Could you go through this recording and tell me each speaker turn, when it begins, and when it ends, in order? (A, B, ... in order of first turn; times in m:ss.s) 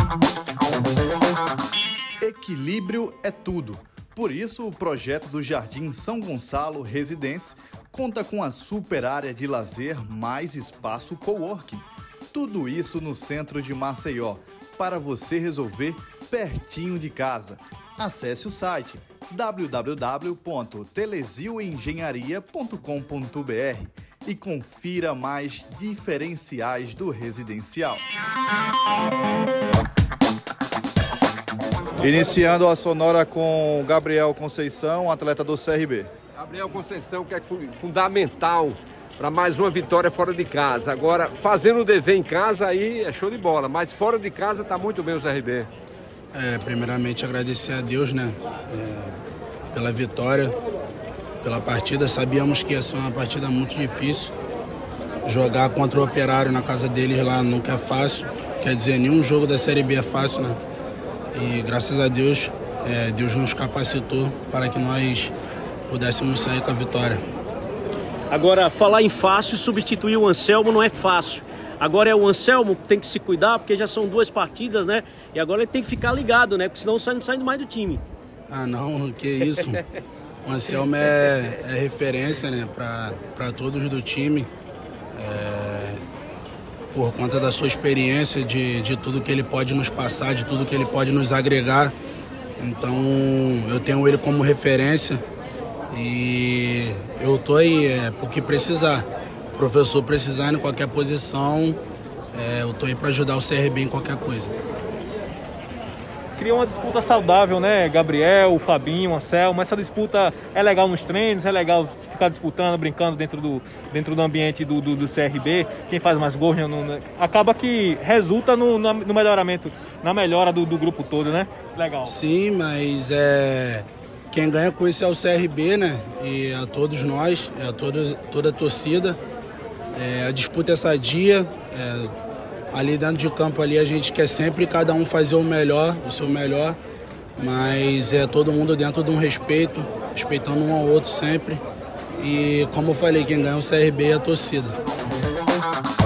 0:02.2-0:28.0 A
0:32.0-0:36.1 A
0:36.4-0:45.7 B
0:46.3-0:49.2 C
0:49.7-0:50.6 C
0:51.4-0:54.3 C
0:55.2-1:00.6 C
1:01.3-1:05.3 C
1:05.9-1:07.2 C
1:08.3-1:18.0 D
1:18.5-1:19.8 C
1:20.4-1:24.5 C
1:25.2-1:26.0 C
1:26.9-1:31.9 C
1:32.6-1:35.2 C
1:35.9-1:41.8 C
1:42.3-1:44.5 C
1:46.4-2:02.2 E
2:02.0-2:09.2 C
2:09.9-2:12.1 C
2:12.7-2:16.8 C
2:17.4-2:21.6 C
2:22.2-2:24.8 C